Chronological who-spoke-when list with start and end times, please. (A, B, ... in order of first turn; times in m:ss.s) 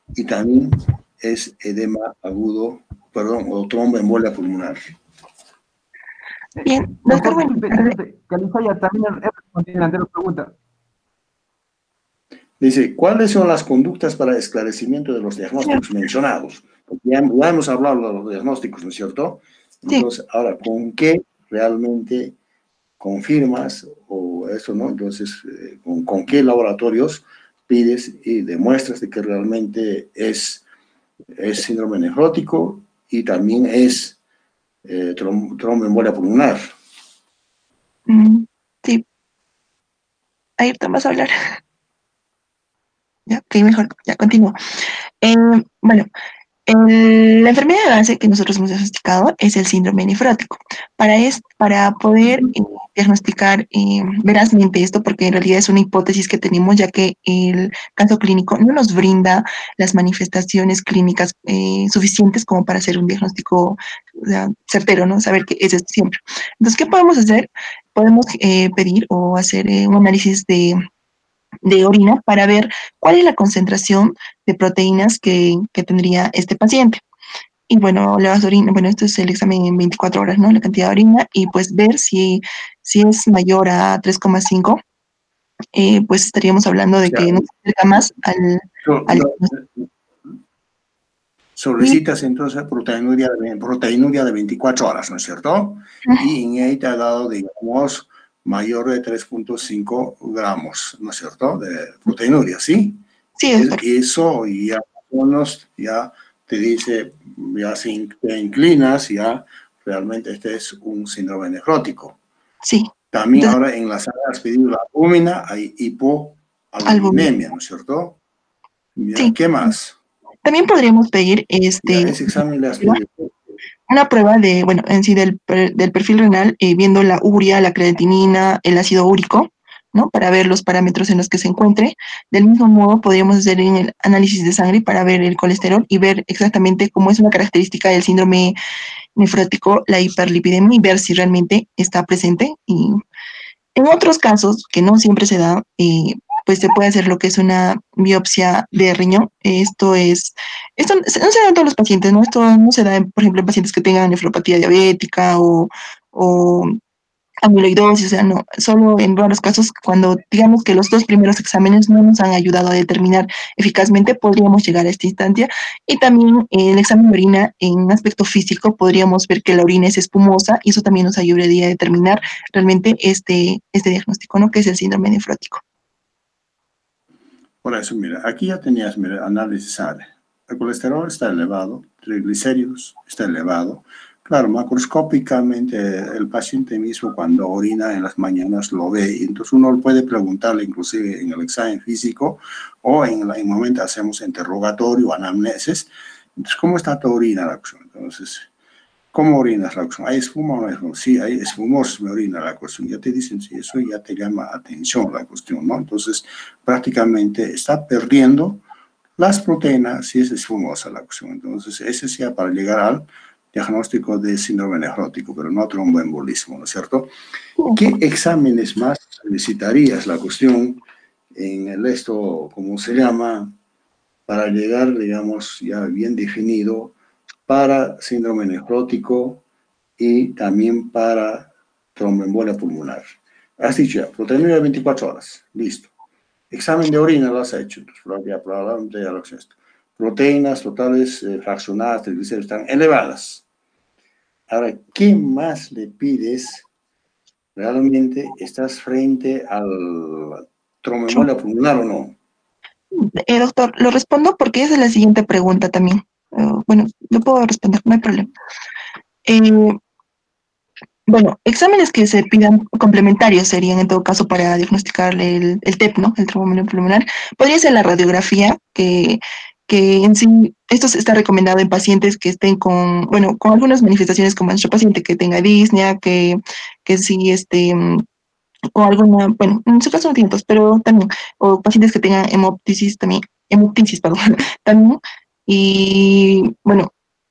0:00.1-0:04.9 A
0:06.6-0:08.0 B
0:07.0-0:10.5 C
0:12.6-0:22.4 A
0:23.0-0:30.6 A
0:31.4-0:34.2 A
0:34.8-0:36.7 A
0:38.1-0:39.0 B
0:40.6-0:41.6 B
0:43.3-0:44.6 B
0:45.2-0:46.1 B
0:46.7-1:10.8 B
1:11.6-1:17.0 B
1:17.7-1:24.8 B
1:25.7-1:29.4 B
1:28.8-1:29.9 A
1:31.6-1:43.0 A
1:43.4-1:43.8 B
1:43.6-1:52.2 A
1:52.6-1:53.5 B
1:53.1-1:58.2 A
1:56.9-1:57.3 B
1:59.0-2:00.0 A
2:00.4-2:02.2 B
2:01.8-2:03.4 A
2:03.9-2:18.5 B
2:19.2-2:23.0 B
2:23.8-2:36.8 B
2:37.4-2:55.6 B
2:57.6-3:18.5 A
3:19.1-3:28.6 A
3:29.2-3:37.1 A
3:37.7-3:40.8 A
3:41.3-3:43.5 A
3:44.3-3:46.9 A
3:47.5-3:49.4 A
3:50.0-3:53.1 A
3:53.6-3:55.9 A
3:56.5-4:03.4 A
4:04.5-4:06.6 A
4:07.6-4:12.2 A
4:13.0-4:18.3 B
4:19.2-4:19.8 B
4:21.1-4:38.0 B
4:38.7-4:46.9 B